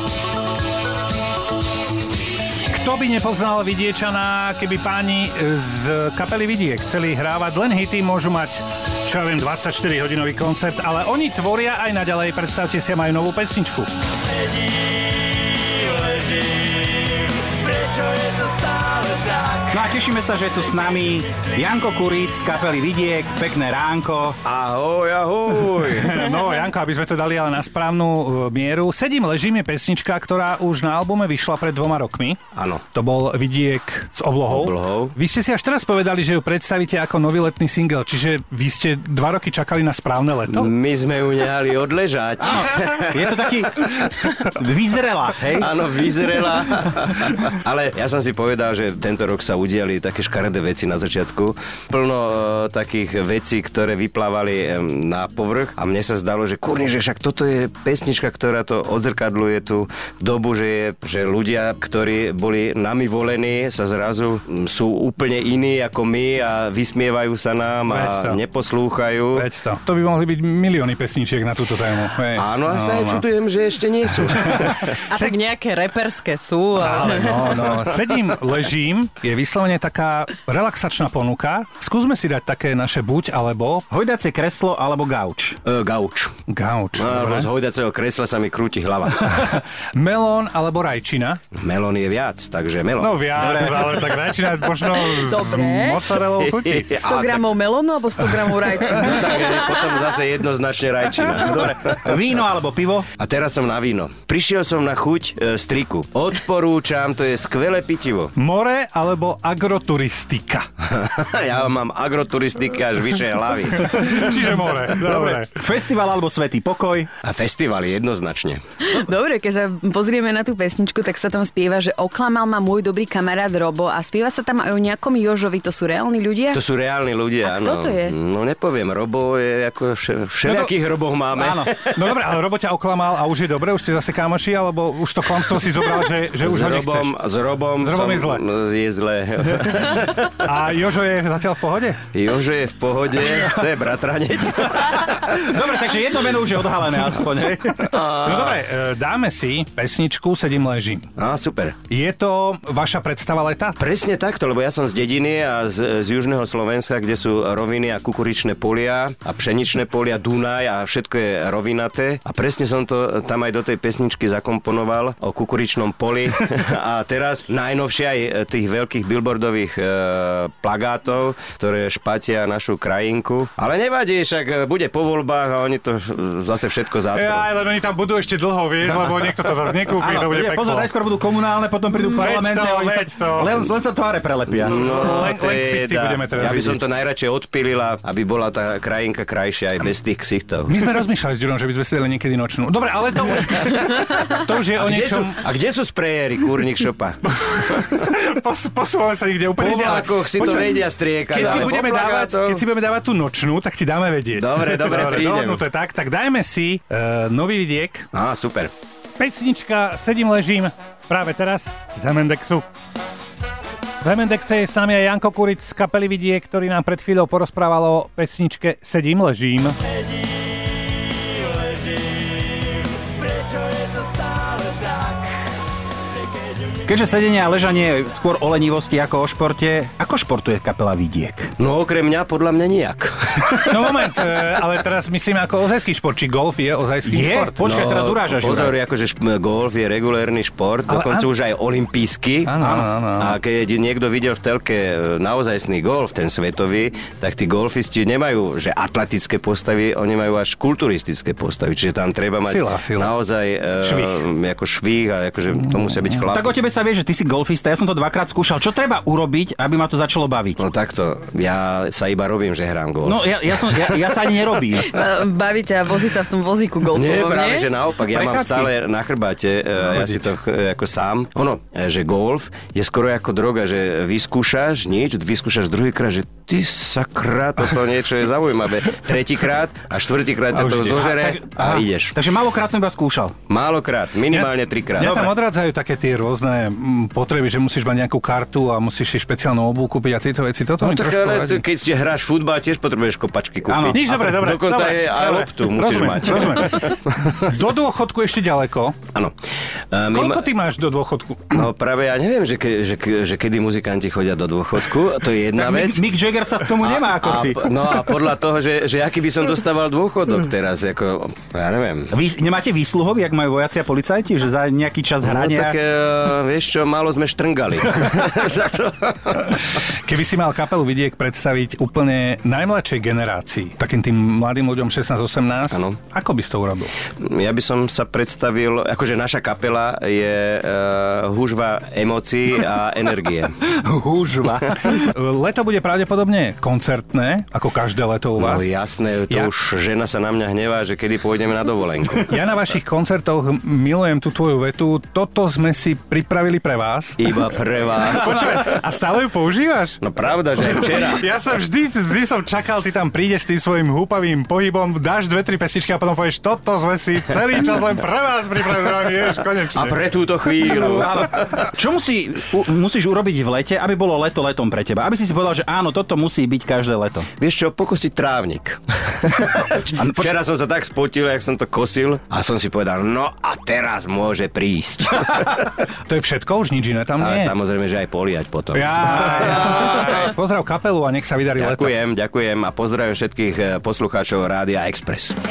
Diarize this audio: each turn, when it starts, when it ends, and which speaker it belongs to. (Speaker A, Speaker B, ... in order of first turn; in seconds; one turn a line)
Speaker A: 2.7-13.9
Speaker B: 15.6-19.7
Speaker C: 19.7-24.4
Speaker B: 24.4-26.3
Speaker A: 25.8-32.4
Speaker B: 32.5-32.8
Speaker A: 32.9-40.7
Speaker B: 34.5-35.1
Speaker B: 40.5-44.2
Speaker C: 42.4-45.7
Speaker B: 45.6-69.5
Speaker A: 67.9-68.4
Speaker A: 69.3-73.2
Speaker B: 72.3-75.0
Speaker A: 74.2-75.4
Speaker D: 75.1-77.4
Speaker A: 76.8-83.8
Speaker C: 83.9-85.6
Speaker B: 85.6-86.3
Speaker A: 86.5-87.5
Speaker B: 87.0-89.5
Speaker A: 89.2-91.4
Speaker B: 91.6-93.5
Speaker A: 93.0-96.9
Speaker C: 93.3-93.9
Speaker E: 95.2-96.1
Speaker B: 96.2-97.5
Speaker E: 96.9-99.6
Speaker B: 98.9-102.0
Speaker C: 101.3-103.1
Speaker B: 103.2-108.3
Speaker A: 108.3-110.6
Speaker B: 110.9-114.1
Speaker A: 113.7-115.6
Speaker C: 115.0-117.1
Speaker B: 117.2-118.6
Speaker E: 118.8-126.6
Speaker B: 126.5-132.1
Speaker E: 127.4-128.1
Speaker A: 130.4-130.7
Speaker C: 131.3-131.7
Speaker A: 131.8-137.2
Speaker B: 136.4-140.4
Speaker A: 137.8-138.4
Speaker A: 140.3-142.0
Speaker B: 142.1-145.4
Speaker C: 145.2-147.9
Speaker A: 147.9-151.1
Speaker B: 147.9-148.6
Speaker B: 151.2-151.8
Speaker A: 151.9-153.8
Speaker B: 153.8-177.5
Speaker A: 177.1-180.9
Speaker C: 178.9-179.3
Speaker C: 179.9-184.8
Speaker A: 182.0-183.7
Speaker B: 184.6-190.8
Speaker A: 184.6-186.8
Speaker A: 190.7-195.4
Speaker B: 194.8-197.2
Speaker A: 197.3-208.1
Speaker B: 197.7-198.0
Speaker B: 199.6-202.6
Speaker B: 204.3-205.6
Speaker B: 208.1-208.7
Speaker A: 209.2-212.7
Speaker A: 214.0-219.8
Speaker B: 223.6-225.2
Speaker C: 226.8-231.5
Speaker B: 231.6-234.1
Speaker A: 233.5-237.9
Speaker C: 237.0-238.8
Speaker B: 237.6-256.5
Speaker A: 240.9-241.3
Speaker A: 242.4-243.4
Speaker A: 252.4-253.2
Speaker A: 253.8-254.2
Speaker C: 256.3-260.6
Speaker B: 260.6-263.8
Speaker C: 263.0-264.9
Speaker E: 264.8-267.7
Speaker B: 266.9-282.1
Speaker C: 268.1-268.7
Speaker C: 280.6-283.4
Speaker B: 283.5-285.2
Speaker A: 284.3-291.6
Speaker C: 285.0-285.3
Speaker B: 290.8-297.3
Speaker C: 293.7-294.0
Speaker A: 293.8-299.0
Speaker B: 299.9-300.4
Speaker A: 300.1-301.6
Speaker B: 301.5-306.1
Speaker C: 305.6-307.8
Speaker B: 306.8-312.1
Speaker C: 312.1-315.8
Speaker B: 315.2-319.6
Speaker A: 319.5-326.9
Speaker B: 327.2-333.6
Speaker C: 333.8-334.9
Speaker A: 334.7-338.7
Speaker B: 338.4-342.3
Speaker A: 342.3-347.3
Speaker B: 347.2-348.8
Speaker A: 348.0-350.0
Speaker B: 350.0-351.2
Speaker A: 350.6-360.1
Speaker B: 359.7-361.5
Speaker C: 360.6-367.3
Speaker B: 367.4-375.7
Speaker C: 369.9-370.3
Speaker A: 376.0-377.5
Speaker B: 377.2-380.3
Speaker A: 378.7-381.9
Speaker B: 381.6-385.4